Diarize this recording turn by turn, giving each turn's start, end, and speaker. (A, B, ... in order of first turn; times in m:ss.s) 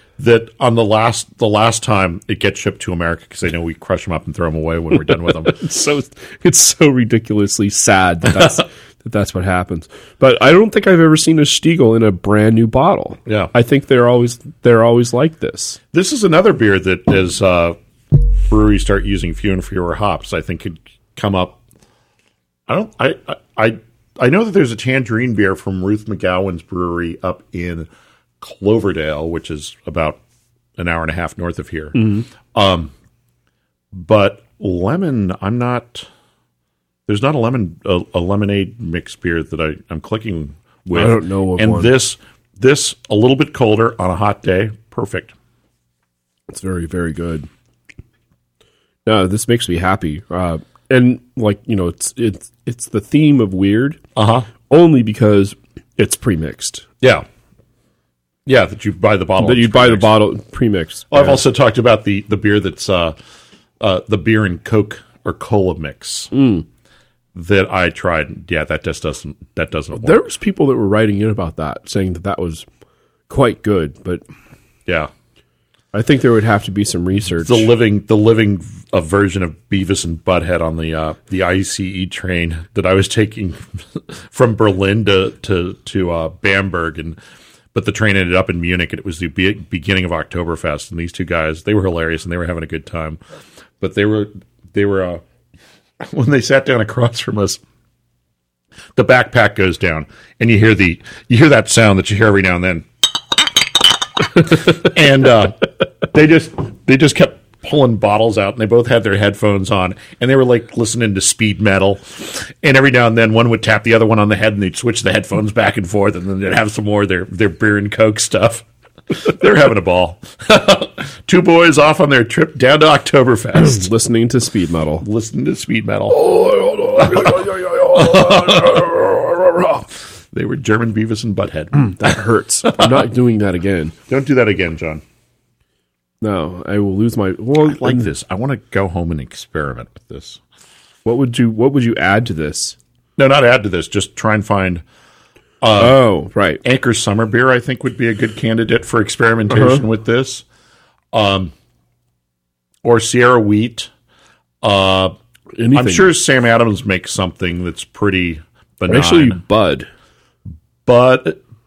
0:00.2-0:05.6 A
0:05.4-0:15.8 B
0:13.2-0:13.5 A
0:15.9-0:21.6 A
0:22.7-0:27.9 A
0:28.4-0:30.2 A
0:30.8-0:32.9 A
0:32.0-0:32.2 B
0:33.9-0:36.1 A
0:37.1-0:45.3 A
0:40.9-0:42.0 B
0:46.5-0:47.5 B
0:49.0-0:54.0 B
0:54.2-0:54.5 A
0:54.7-0:56.8 B
0:57.0-0:57.2 A
0:58.4-1:00.1 A
0:59.4-1:01.4 B
1:01.1-1:03.2 A
1:03.8-1:06.3 A
1:06.3-1:06.6 B
1:07.3-1:10.2 A
1:10.0-1:12.6 B
1:13.3-1:14.2 B
1:14.8-1:15.1 A
1:15.9-1:17.7 B
1:17.4-1:27.2 A
1:27.7-1:33.2 A
1:33.8-1:35.2 A
1:36.0-1:37.6 A
1:38.9-1:43.5 A
1:44.2-2:03.9 A
2:03.6-2:05.0 B
2:05.0-2:06.4 A
2:06.1-2:09.8 B
2:06.9-2:09.0 A
2:10.3-2:13.0 A
2:11.7-2:13.9 B
2:14.1-2:15.0 A
2:16.2-2:18.1 B
2:17.6-2:20.4 A
2:21.0-2:22.8 B
2:23.2-2:24.8 A
2:25.6-2:26.0 A
2:25.8-2:26.6 B
2:26.6-2:30.4 A
2:29.5-2:29.8 B
2:31.1-2:31.5 A
2:32.8-2:33.9 A
2:34.6-2:35.1 A
2:35.5-2:36.1 B
2:35.7-2:39.4 A
2:38.9-2:39.9 B
2:40.8-2:41.4 A